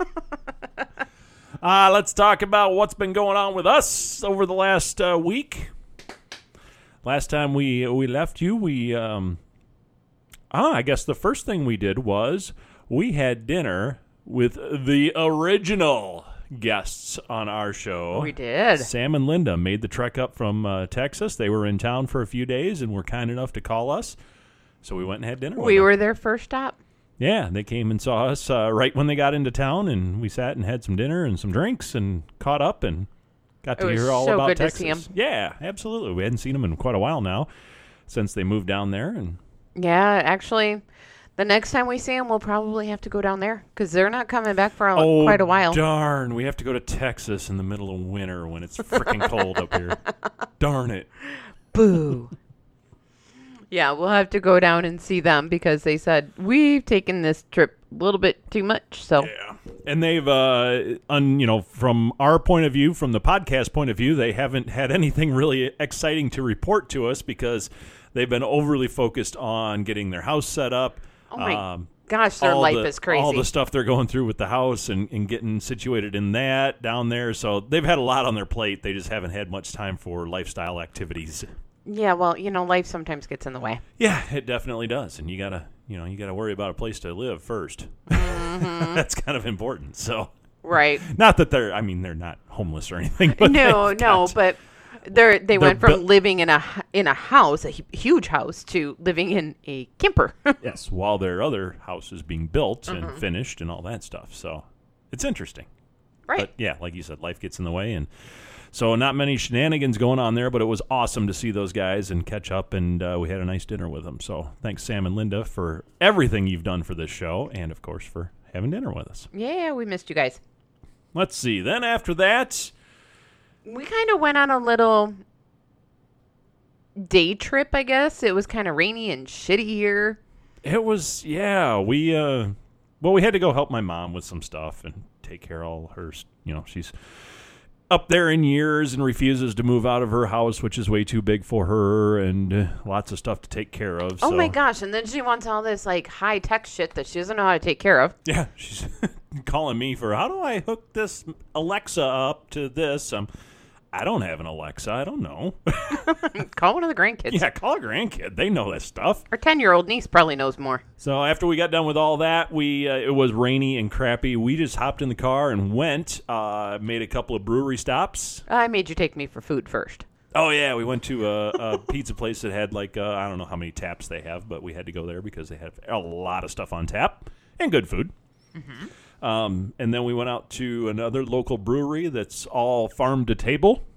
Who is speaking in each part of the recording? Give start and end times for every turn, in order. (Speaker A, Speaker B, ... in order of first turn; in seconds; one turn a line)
Speaker A: 1.6-5.7
Speaker A: 7.0-9.4
Speaker A: 10.5-24.1
Speaker B: 18.1-18.9
Speaker A: 24.8-25.9
Speaker B: 25.6-26.8
Speaker A: 27.2-33.1
Speaker A: 33.6-37.5
Speaker B: 33.8-35.0
Speaker A: 38.1-39.4
Speaker B: 39.8-40.8
Speaker B: 41.4-45.8
Speaker A: 45.0-50.0
Speaker A: 50.6-51.1
Speaker B: 51.7-52.3
Speaker B: 53.7-59.3
Speaker A: 59.2-81.5
Speaker B: 71.3-73.5
Speaker B: 81.8-83.8
Speaker A: 84.0-90.3
Speaker B: 88.1-89.0
Speaker B: 90.6-91.0
Speaker A: 91.0-94.4
Speaker B: 93.3-100.6
Speaker A: 95.5-96.0
Speaker A: 100.6-105.7
Speaker B: 102.9-103.2
Speaker A: 106.4-108.1
Speaker A: 108.7-119.3
Speaker B: 119.3-120.4
Speaker A: 121.1-122.7
Speaker B: 123.6-125.2
Speaker B: 127.0-130.2
Speaker A: 130.6-136.9
Speaker A: 137.9-144.6
Speaker B: 144.2-148.2
Speaker A: 148.2-153.3
Speaker A: 153.9-156.2
Speaker B: 155.9-157.4
Speaker A: 157.3-159.2
Speaker B: 159.3-160.8
Speaker A: 161.0-168.4
Speaker B: 168.5-170.0
Speaker A: 170.3-178.1
Speaker B: 178.6-178.9
Speaker A: 179.2-183.8